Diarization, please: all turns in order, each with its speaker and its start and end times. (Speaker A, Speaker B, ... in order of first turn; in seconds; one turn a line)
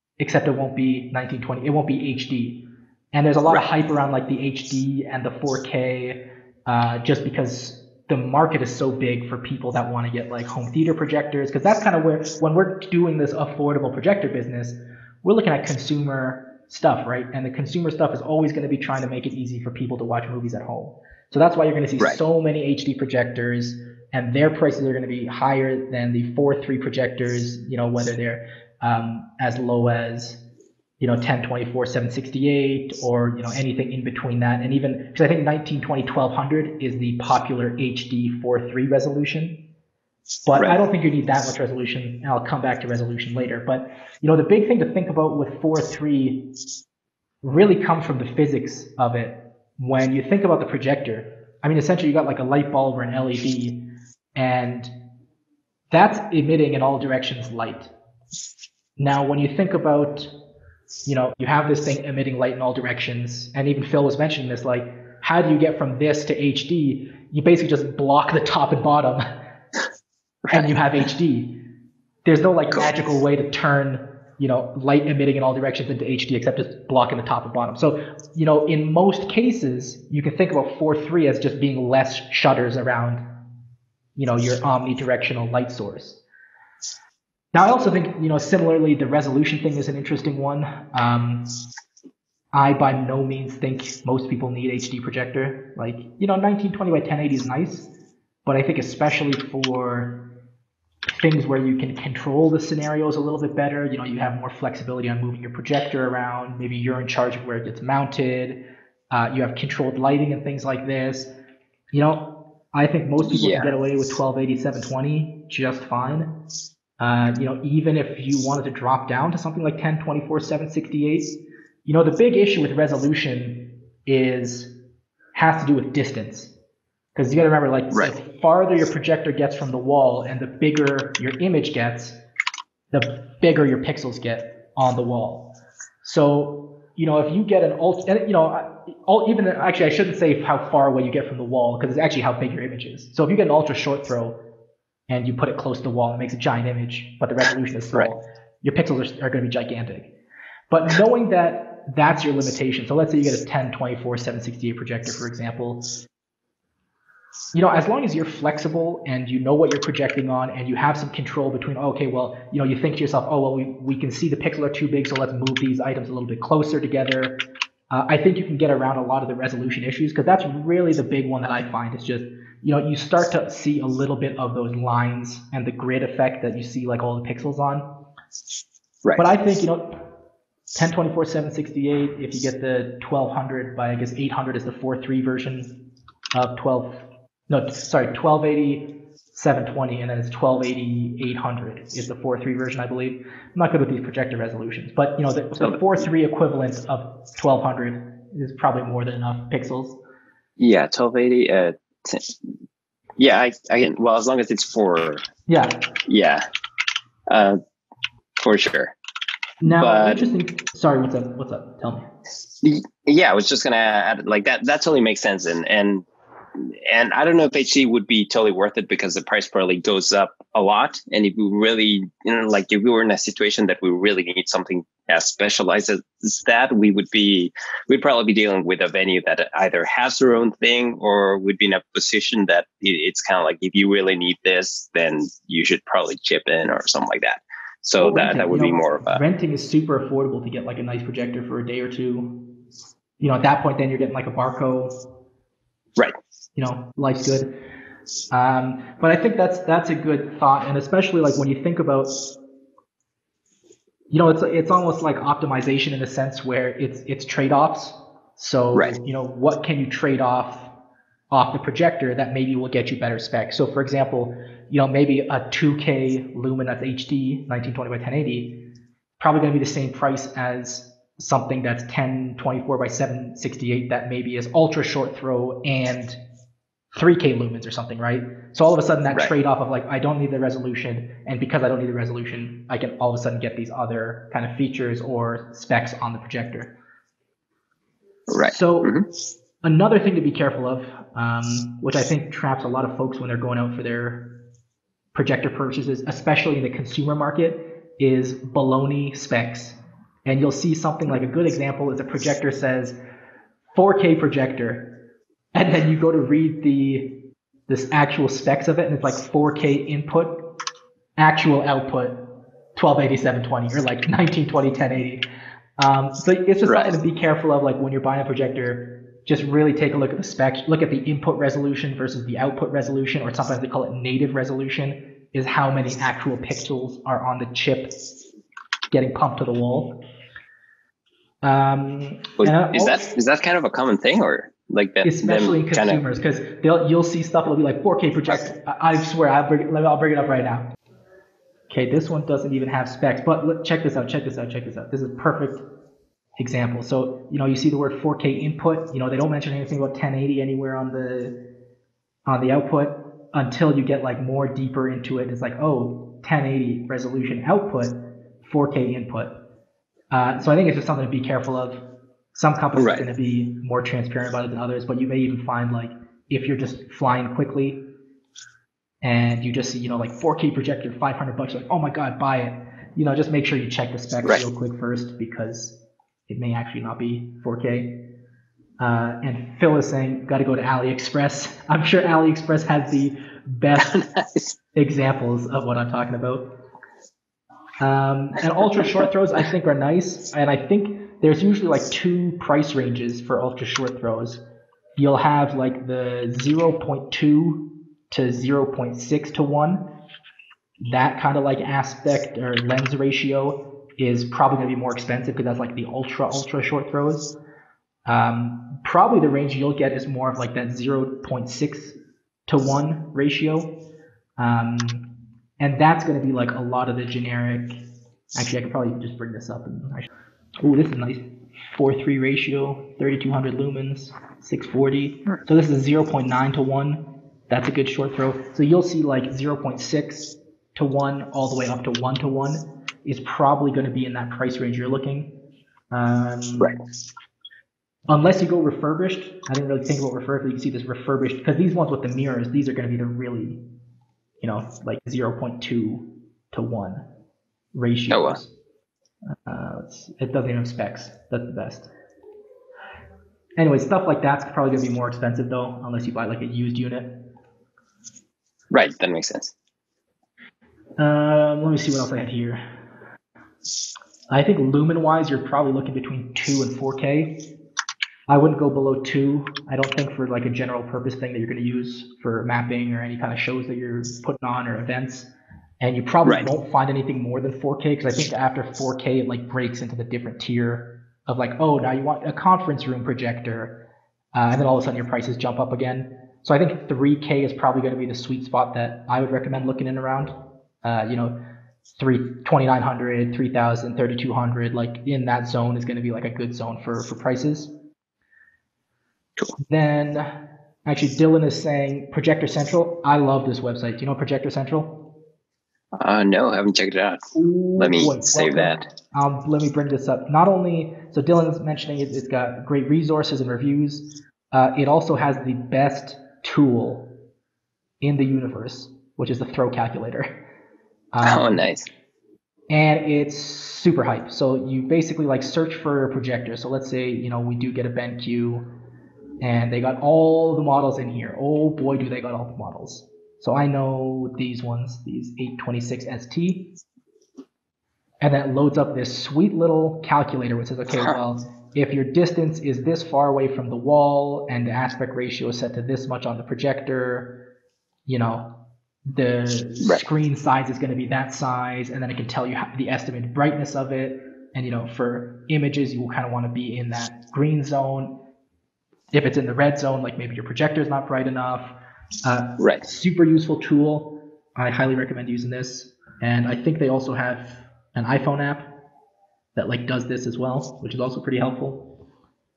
Speaker A: 0.2-30.4
Speaker A: 31.0-39.6
Speaker A: 40.5-46.5
Speaker A: 47.4-54.9
Speaker A: 55.9-57.9
Speaker A: 59.0-60.3
Speaker A: 61.1-69.2
Speaker A: 70.5-71.6
Speaker A: 72.2-83.2
Speaker A: 84.2-86.2
Speaker A: 87.5-91.5
Speaker A: 92.5-97.9
Speaker A: 98.5-100.3
Speaker A: 101.1-108.6
Speaker A: 109.1-111.3
Speaker A: 111.9-116.3
Speaker B: 113.2-113.7
Speaker A: 117.0-124.7
Speaker A: 125.3-126.5
Speaker A: 127.2-132.2
Speaker A: 132.9-144.4
Speaker A: 145.1-150.1
Speaker A: 150.7-155.9
Speaker A: 157.5-177.9
Speaker A: 179.2-180.1
Speaker A: 180.8-185.8
Speaker A: 186.3-200.0
Speaker B: 200.6-202.3
Speaker B: 203.2-205.2
Speaker A: 205.5-205.9
Speaker B: 206.1-206.4
Speaker B: 207.3-207.6
Speaker B: 208.4-208.9
Speaker A: 209.6-212.1
Speaker B: 209.7-210.3
Speaker B: 212.6-216.1
Speaker B: 216.6-239.2
Speaker A: 238.0-242.5
Speaker A: 243.2-244.9
Speaker A: 246.6-247.6
Speaker A: 248.3-252.2
Speaker A: 254.1-260.7
Speaker A: 261.3-268.7
Speaker A: 269.2-276.2
Speaker A: 276.9-286.7
Speaker B: 288.3-289.1
Speaker A: 288.4-289.0
Speaker A: 289.6-294.4
Speaker A: 295.1-303.0
Speaker A: 303.7-305.0
Speaker A: 305.6-310.4
Speaker A: 311.2-315.2
Speaker A: 315.8-327.9
Speaker B: 316.7-316.9
Speaker A: 328.9-330.0
Speaker A: 331.4-333.2
Speaker B: 332.4-336.0
Speaker A: 335.0-340.7
Speaker A: 341.7-345.6
Speaker A: 346.4-351.4
Speaker A: 352.3-359.4
Speaker A: 360.1-361.8
Speaker A: 362.3-367.8
Speaker B: 362.8-363.1
Speaker A: 369.0-378.0
Speaker A: 378.8-384.1
Speaker B: 383.8-384.5
Speaker A: 384.7-386.5
Speaker A: 387.8-394.4
Speaker A: 394.9-399.8
Speaker A: 400.8-407.3
Speaker A: 408.1-411.9
Speaker A: 412.5-413.7
Speaker A: 414.4-417.8
Speaker A: 418.3-420.1
Speaker A: 420.6-435.3
Speaker A: 435.9-436.7
Speaker A: 438.1-443.6
Speaker A: 444.4-447.0
Speaker A: 447.7-448.5
Speaker B: 448.1-448.4
Speaker A: 449.4-451.9
Speaker A: 453.6-457.2
Speaker B: 458.7-459.5
Speaker A: 461.0-462.6
Speaker A: 464.3-467.4
Speaker A: 468.3-483.8
Speaker A: 484.3-491.4
Speaker A: 492.0-497.7
Speaker A: 499.6-500.3
Speaker A: 500.9-505.1
Speaker B: 506.0-507.2
Speaker A: 507.3-517.1
Speaker B: 507.8-508.8
Speaker A: 518.0-520.3
Speaker A: 521.1-521.7
Speaker B: 521.2-521.9
Speaker A: 522.7-528.6
Speaker A: 529.4-536.7
Speaker A: 538.2-547.4
Speaker A: 548.1-558.1
Speaker A: 559.1-561.7
Speaker A: 562.2-568.7
Speaker A: 569.6-571.9